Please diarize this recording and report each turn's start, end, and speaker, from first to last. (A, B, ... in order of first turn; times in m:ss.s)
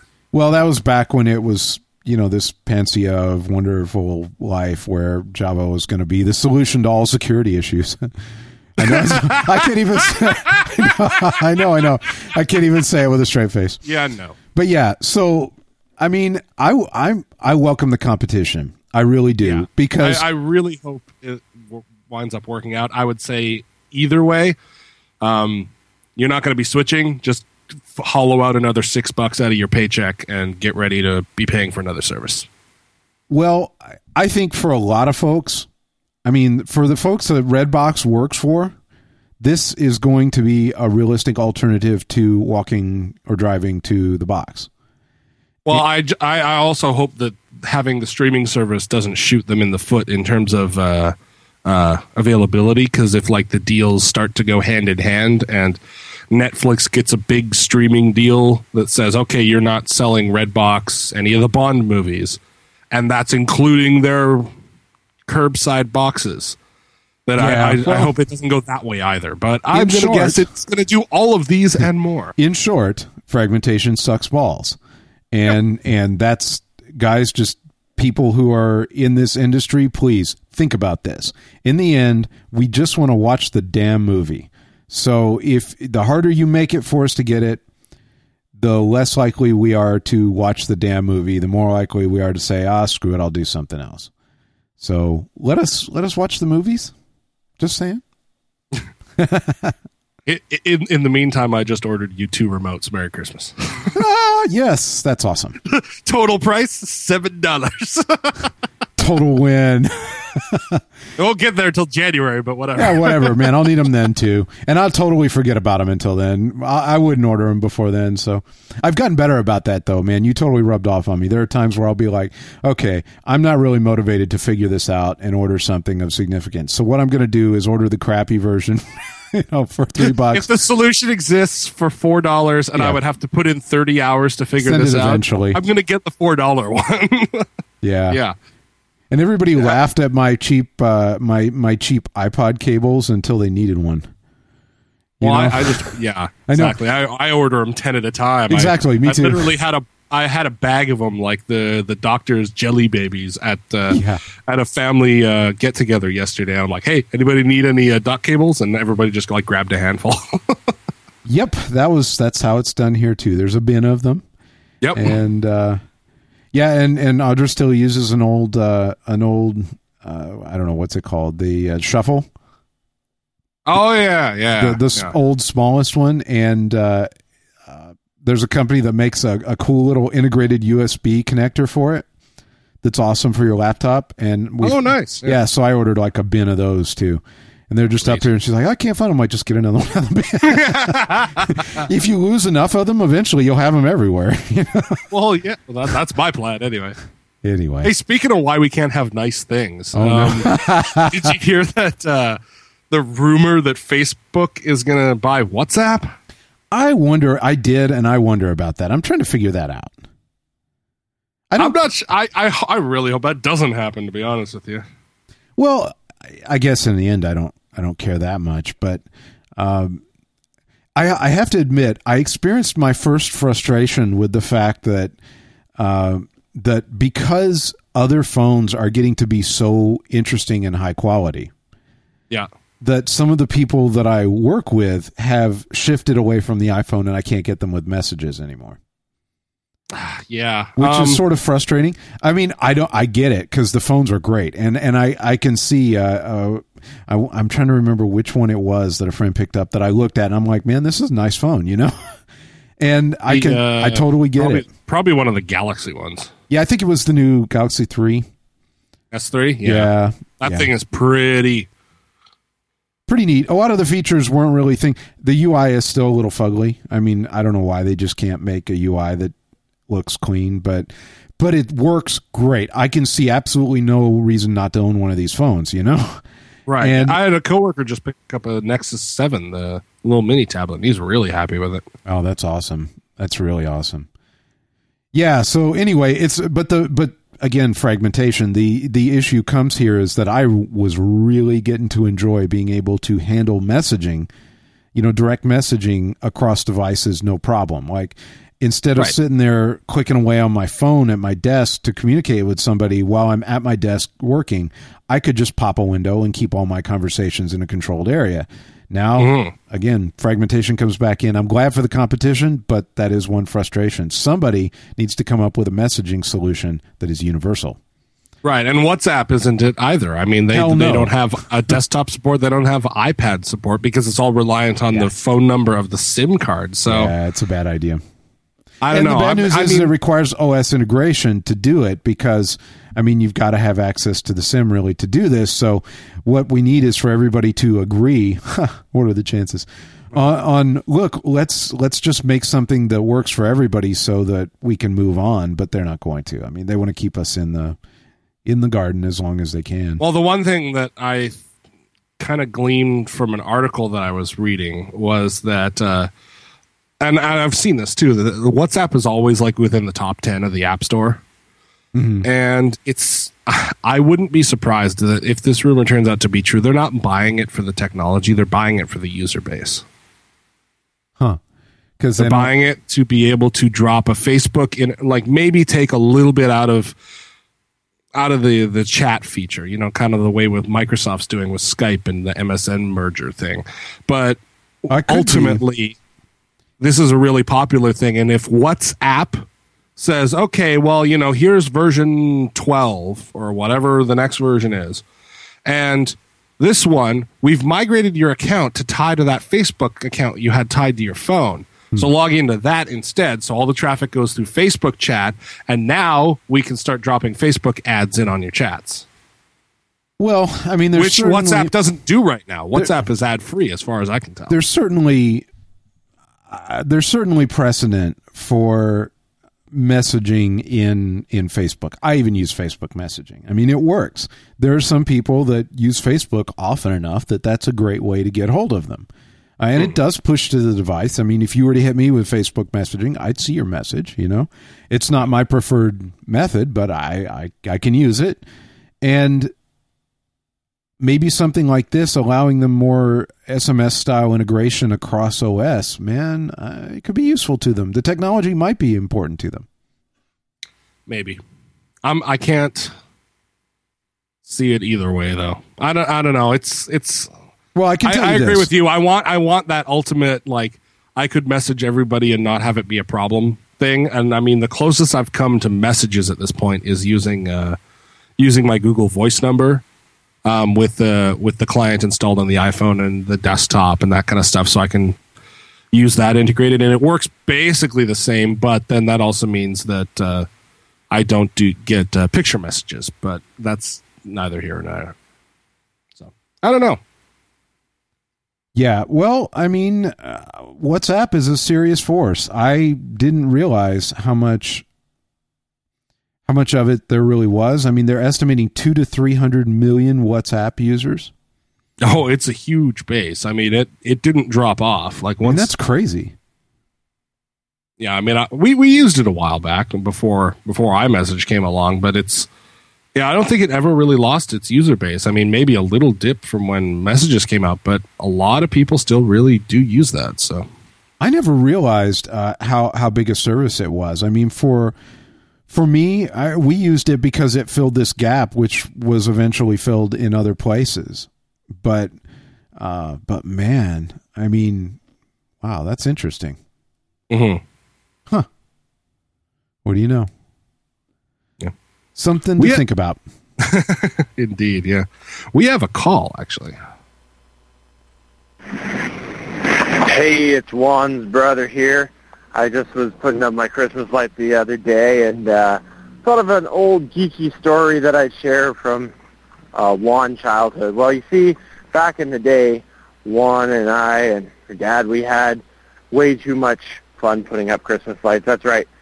0:00.3-0:08.1 A
0:08.8-0:13.8 A
0:08.8-0:11.3 B
0:13.8-0:14.4 B
0:14.5-0:20.2 A
0:19.4-0:24.6 B
0:25.2-0:32.5 B
0:33.3-0:35.7 A
0:36.2-0:38.7 A
0:39.4-0:44.7 A
0:45.6-0:55.8 B
0:56.3-1:02.4 B
1:02.9-1:04.5 B
1:05.2-1:06.6 B
1:07.3-1:12.3 B
1:07.4-1:08.1 A
1:09.7-1:10.5 A
1:12.4-1:14.8 A
1:15.3-1:27.6 A
1:28.6-1:34.1 A
1:34.8-1:36.9 A
1:37.6-1:38.0 A
1:39.2-1:39.7 A
1:40.2-1:43.9 B
1:43.9-1:45.6 A
1:45.6-1:48.5 B
1:49.0-1:50.8 A
1:51.2-1:53.5 B
1:52.8-2:10.5 A
2:10.0-2:17.4 B
2:14.6-2:15.6 A
2:17.8-2:18.2 A
2:19.1-2:24.1 A
2:25.2-2:25.9 A
2:25.2-2:40.6 B
2:26.5-2:26.8 A
2:28.5-2:29.5 A
2:33.9-2:34.2 A
2:41.2-2:44.2 A
2:44.8-2:45.2 B
2:44.9-2:45.8 A
2:46.5-2:52.3 A
2:53.7-2:55.1 B
2:54.6-2:57.1 A
2:57.6-3:02.0 A
3:02.8-3:15.0 A
3:04.6-3:05.4 B
3:10.4-3:11.8 B
3:15.1-3:17.0 B
3:17.4-3:17.9 A
3:17.8-3:22.4 B
3:19.9-3:21.3 A
3:22.9-3:26.1 B
3:26.7-3:29.9 A
3:31.5-3:31.8 A
3:31.6-3:34.8 B
3:35.6-3:39.0 A
3:39.6-3:40.0 A
3:41.0-3:45.1 A
3:45.8-3:51.5 A
3:52.8-3:58.8 A
3:59.9-4:01.2 B
4:00.8-4:12.1 A
4:12.8-4:14.6 A
4:13.3-4:16.3 B
4:16.5-4:18.3 A
4:19.1-4:21.7 B
4:19.6-4:20.7 A
4:23.1-4:29.3 A
4:29.9-4:36.2 A
4:36.7-4:41.8 B
4:36.8-4:37.2 A
4:42.0-4:44.1 A
4:45.1-4:54.3 A
4:54.9-5:17.8 A
5:09.2-5:09.5 B
5:18.4-5:27.1 B
5:20.5-5:21.1 A
5:26.8-5:28.0 A
5:28.8-5:29.9 B
5:28.9-5:47.8 A
5:48.4-5:50.0 A
5:50.0-5:51.4 B
5:52.2-5:56.1 B
5:57.0-6:01.2 B
6:01.9-6:02.3 A
6:02.2-6:09.8 B
6:12.0-6:12.5 A
6:12.2-6:17.0 B
6:18.1-6:26.0 B
6:24.9-6:25.6 A
6:26.8-6:29.4 B
6:30.0-6:35.0 B
6:35.6-6:49.0 B
6:50.2-6:51.7 A
6:51.0-6:54.6 B
6:52.7-6:53.0 A
6:54.5-6:55.4 A
6:56.5-6:59.1 A
6:59.7-7:09.1 A
7:09.6-7:18.4 A
7:19.0-7:19.5 A
7:21.0-7:29.6 A
7:31.1-7:31.4 B
7:32.0-7:32.9 B
7:34.4-7:37.3 B
7:37.7-7:38.7 A
7:38.0-7:47.8 B
7:48.4-7:49.8 B
7:50.4-7:55.2 B
7:55.9-8:00.5 B
8:01.1-8:05.1 B
8:06.2-8:07.0 B
8:08.7-8:14.8 A
8:16.4-8:21.3 A
8:22.0-8:25.7 B
8:25.4-8:26.3 A
8:28.0-8:32.5 B
8:33.1-8:40.7 B
8:41.2-8:44.9 A
8:45.7-8:52.1 A
8:52.8-8:55.0 A
8:55.6-8:56.6 A
8:57.3-8:57.6 B
8:59.8-9:00.3 A
9:02.2-9:03.2 A
9:03.6-9:06.8 B
9:08.8-9:19.1 C
9:19.7-9:28.9 C